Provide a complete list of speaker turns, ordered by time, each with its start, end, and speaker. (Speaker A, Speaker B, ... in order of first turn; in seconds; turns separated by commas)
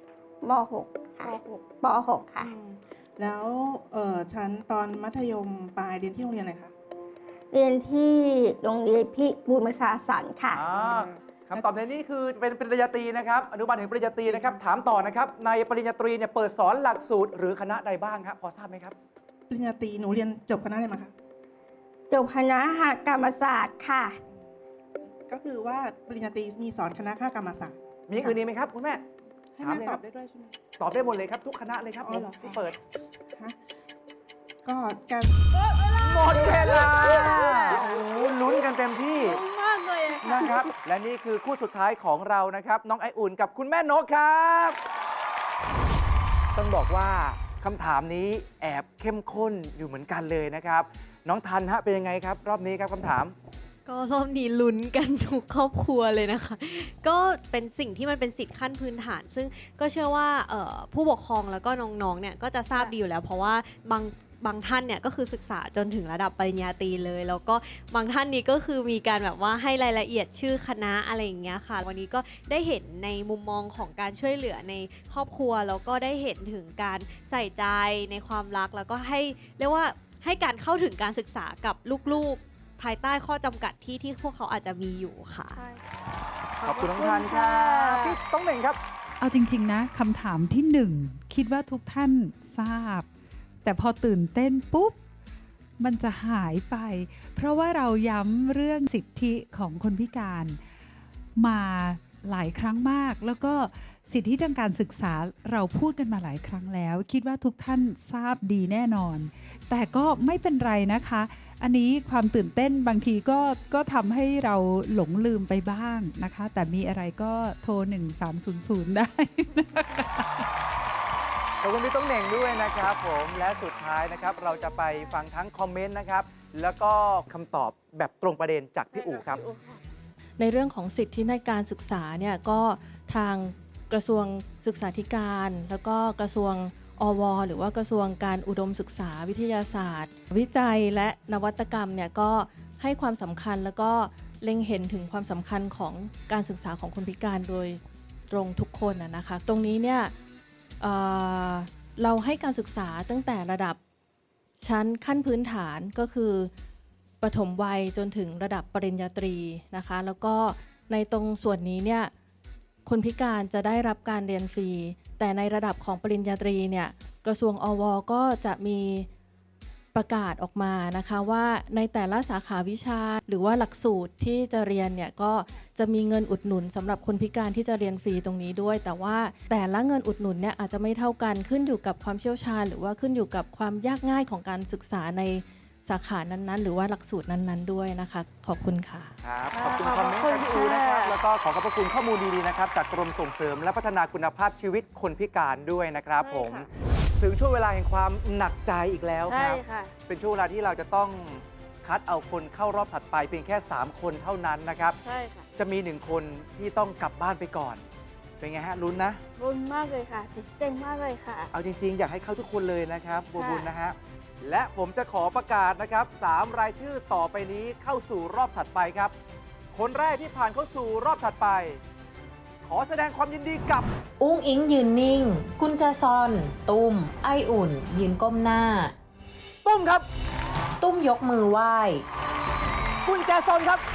Speaker A: 0.4-2.5, Speaker B: 2.4-6.7, Speaker A: 7.5-10.6, Speaker C: 10.5-18.9, Speaker B: 10.6-11.7, Speaker B: 14.3-14.6, Speaker B: 19.5-21.1, Speaker A: 22.1-24.2, Speaker B: 25.3-28.4, Speaker C: 28.1-29.0, Speaker B: 29.6-30.6, Speaker C: 29.6-30.0, Speaker C: 30.8-32.8, Speaker B: 32.0-32.8, Speaker B: 34.6-35.4, Speaker D: 35.5-40.7, Speaker C: 36.0-39.4, Speaker C: 40.2-44.8, Speaker C: 46.5-53.4, Speaker E: 53.9-85.6, Speaker D: 85.6-85.8, Speaker D: 86.6-88.2, Speaker C: 86.6-88.8, Speaker F: 89.2-93.1, Speaker F: 93.6-95.0, Speaker F: 95.8-100.6, Speaker F: 101.4-120.5, Speaker C: 121.6-129.4, Speaker D: 128.9-129.8, Speaker G: 130.4-150.1, Speaker G: 150.8-153.8, Speaker G: 154.6-156.5, Speaker G: 157.2-162.1, Speaker G: 162.9-169.1, Speaker G: 169.9-189.2, Speaker C: 189.2-205.0, Speaker D: 189.5-191.2, Speaker D: 196.2-196.7, Speaker D: 199.3-199.9, Speaker D: 205.0-205.4, Speaker C: 205.6-207.8, Speaker C: 208.4-209.2, Speaker D: 209.4-211.5, Speaker C: 211.5-219.1, Speaker D: 213.3-213.7, Speaker C: 219.7-221.8, Speaker C: 222.6-223.9, Speaker H: 224.2-228.9, Speaker C: 229.7-230.1, Speaker H: 230.8-232.1, Speaker C: 233.1-233.8